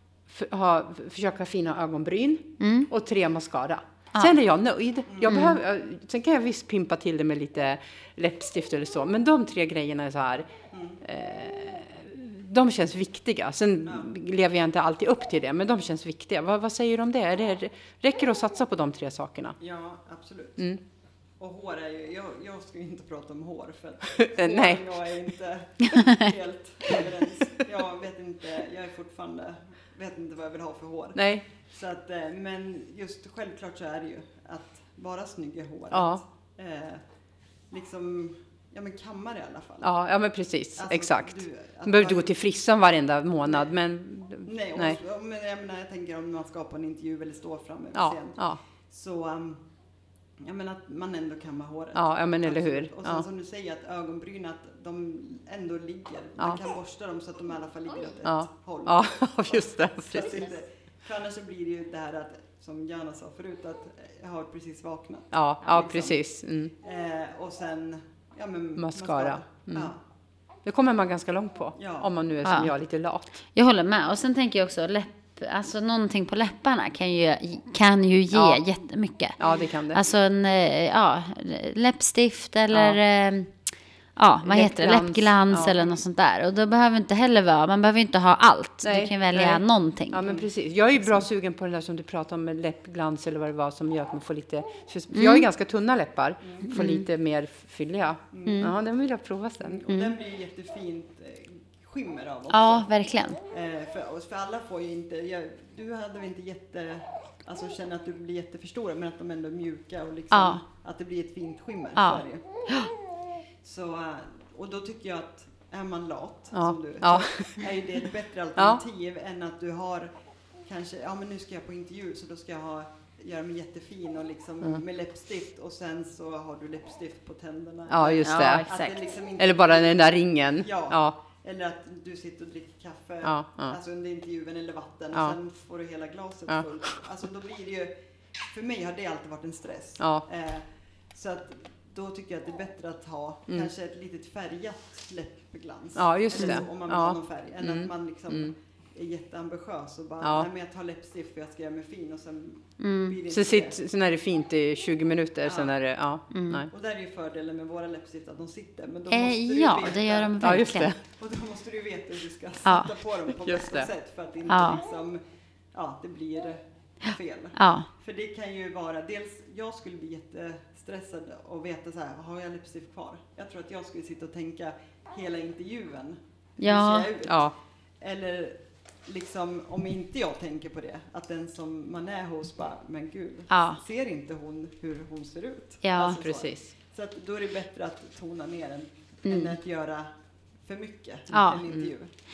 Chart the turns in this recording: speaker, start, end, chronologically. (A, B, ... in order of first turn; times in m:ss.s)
0:00.3-0:10.5 A
0:02.6-0:02.9 B
0:05.1-0:05.5 C
0:05.3-0:05.6 B
0:10.7-0:11.0 C
0:11.0-0:19.6 A
0:13.8-0:14.1 C
0:19.6-0:20.7 C
0:21.4-0:37.0 C
0:24.2-0:25.0 A
0:31.2-0:31.4 A
0:35.9-0:36.2 A
0:37.7-0:39.9 C
0:39.8-0:45.0 A
0:40.8-0:42.3 C
0:43.4-0:43.7 C
0:44.4-0:49.6 C
0:48.0-0:48.6 A
0:50.4-1:06.2 C
0:52.0-0:53.3 A
0:58.2-1:00.5 A
1:05.3-1:06.7 A
1:06.8-1:10.0 C
1:08.8-1:09.9 A
1:10.6-1:13.4 A
1:11.8-1:12.1 C
1:12.4-1:12.7 B
1:13.6-1:19.4 B
1:18.3-1:18.6 A
1:19.4-1:20.0 A
1:19.4-1:19.7 C
1:19.9-1:23.5 B
1:22.7-1:23.0 A
1:24.2-1:30.4 B
1:24.4-1:25.8 A
1:25.6-1:26.0 C
1:28.8-1:39.9 A
1:35.1-1:35.5 B
1:36.4-1:36.7 C
1:36.7-1:37.0 B
1:38.3-1:38.7 C
1:38.5-1:38.7 B
1:39.6-1:42.9 C
1:42.5-1:43.4 B
1:43.5-1:52.4 C
1:50.3-1:50.6 B
1:52.0-1:52.9 B
1:53.6-2:00.1 C
1:56.5-1:57.7 A
2:00.6-2:33.8 C
2:07.9-2:08.7 A
2:08.2-2:09.0 B
2:09.4-2:11.2 A
2:13.2-2:13.8 A
2:26.0-2:28.5 A
2:30.2-2:30.5 A
2:32.8-2:33.2 B
2:33.3-2:36.7 A
2:35.4-2:35.7 C
2:36.3-2:36.6 B
2:36.7-2:45.2 C
2:39.1-2:40.9 B
2:40.4-2:41.0 A
2:42.7-2:42.9 B
2:43.4-2:43.9 A
2:44.5-2:44.8 B
2:45.7-3:10.1 C
2:47.6-2:47.9 B
2:56.6-2:57.1 B
2:57.3-2:57.5 A
3:03.5-3:03.8 B
3:05.8-3:06.2 B
3:06.0-3:06.7 A
3:09.3-3:09.6 B
3:10.6-3:12.1 C
3:11.3-3:11.6 B